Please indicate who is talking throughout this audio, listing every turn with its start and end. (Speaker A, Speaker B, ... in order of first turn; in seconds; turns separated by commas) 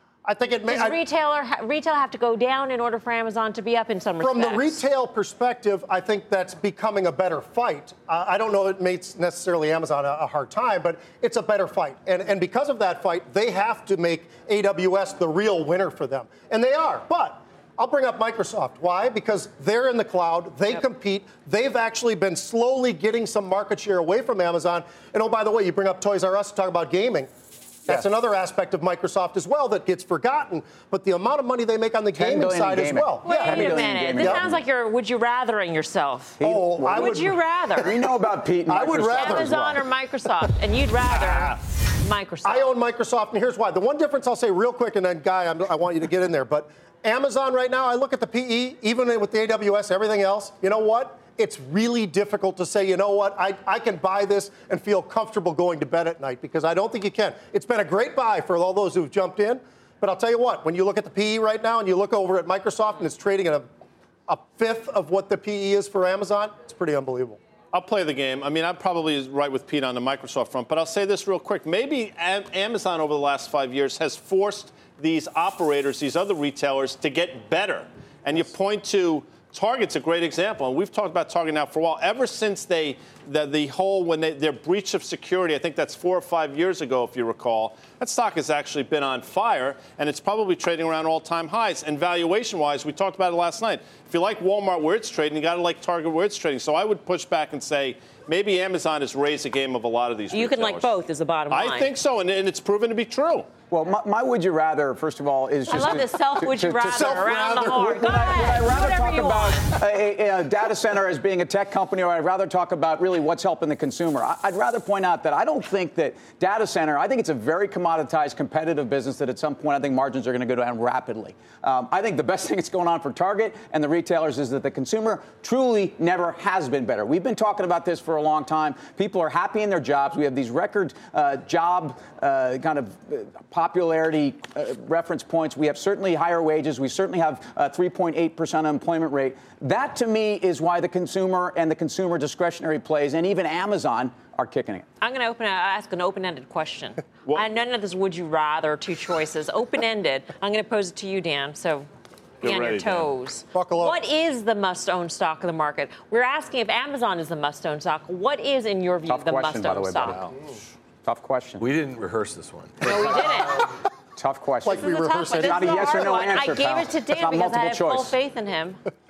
Speaker A: 0.2-1.0, Speaker B: 0.7-4.8, Speaker A: 4.2-27.3, Speaker A: 27.9-34.5, Speaker C: 32.1-34.6, Speaker B: 33.2-36.4, Speaker C: 36.4-39.8, Speaker A: 36.4-38.0, Speaker B: 36.9-37.9, Speaker A: 38.7-39.5, Speaker B: 39.1-42.7, Speaker A: 41.1-41.5, Speaker A: 42.5-63.7, Speaker A: 64.3-67.4, Speaker D: 67.7-100.9, Speaker B: 100.3-101.9, Speaker D: 101.5-103.5, Speaker C: 103.7-144.9, Speaker B: 105.7-109.7, Speaker A: 106.9-108.5, Speaker B: 145.0-151.9, Speaker D: 152.4-153.1, Speaker B: 152.4-160.2, Speaker A: 153.5-154.0, Speaker C: 159.1-160.2, Speaker E: 160.0-160.3, Speaker C: 161.0-161.7, Speaker E: 161.6-163.6, Speaker B: 162.8-163.7, Speaker C: 163.0-163.5, Speaker C: 164.2-168.2, Speaker A: 164.6-166.1, Speaker B: 164.7-168.8